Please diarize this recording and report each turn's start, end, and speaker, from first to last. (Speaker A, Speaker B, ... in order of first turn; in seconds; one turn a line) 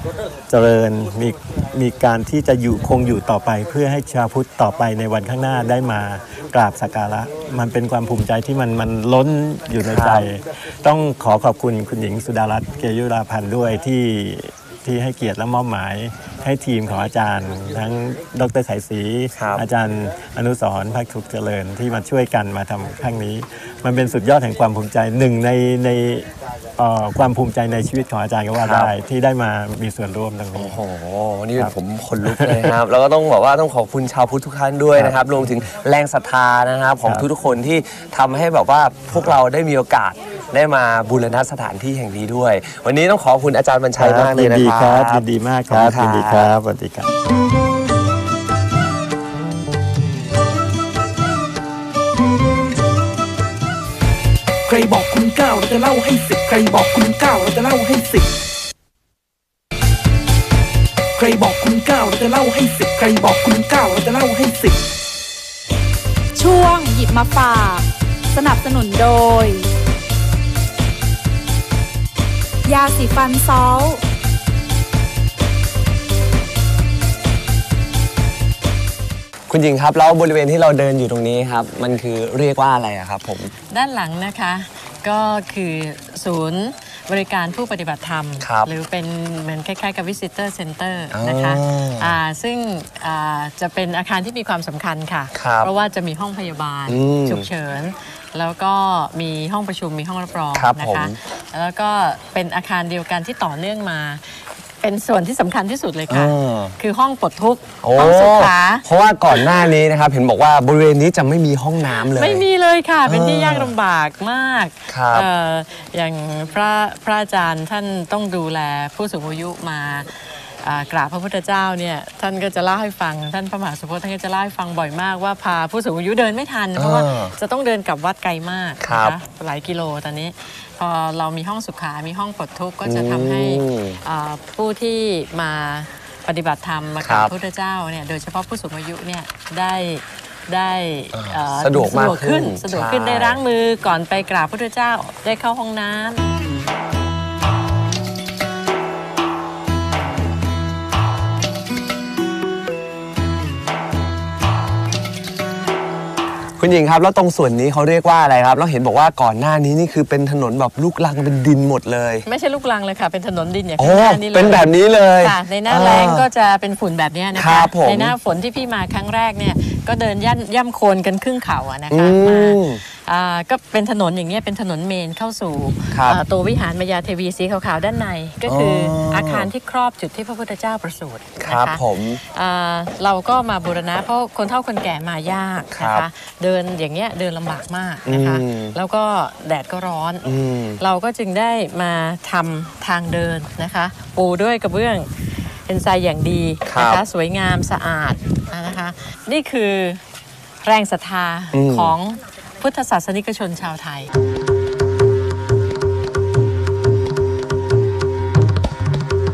Speaker A: 0.5-30.8
Speaker B: 9.8-10.3
Speaker B: 19.4-19.6
Speaker B: 28.5-28.9
Speaker B: 30.6-46.5
Speaker A: 32.3-32.7
Speaker A: 35.0-35.5
Speaker A: 39.1-39.4
Speaker A: 44.0-47.1
Speaker C: 54.7-58.3
Speaker C: 61.2-64.8
Speaker D: 66.3-69.7
Speaker D: 72.7-74.0
Speaker B: 79.5-83.5
Speaker E: 83.7-109.5
Speaker B: 88.4-88.7
Speaker B: 91.1-92.2
Speaker B: 95.3-95.7
Speaker B: 96.9-97.5
Speaker B: 100.5-101.2
Speaker B: 106.1-106.8
Speaker B: 107.8-112.5
Speaker E: 111.9-146.3
Speaker B: 113.1-113.7
Speaker B: 114.9-115.3
Speaker B: 126.8-127.4
Speaker B: 128.8-129.2
Speaker B: 132.8-134.0
Speaker B: 137.0-137.3
Speaker B: 141.1-143.4
Speaker B: 156.6-162.3
Speaker E: 162.2-200.0
Speaker B: 163.8-166.3
Speaker B: 167.3-168.2
Speaker B: 171.9-172.8
Speaker B: 175.9-176.2
Speaker B: 178.4-179.5
Speaker B: 181.4-182.2
Speaker B: 185.7-186.1
Speaker B: 188.1-188.8
Speaker B: 190.2-190.8
Speaker B: 196.6-197.0
Speaker E: 200.6-204.1
Speaker B: 201.5-201.9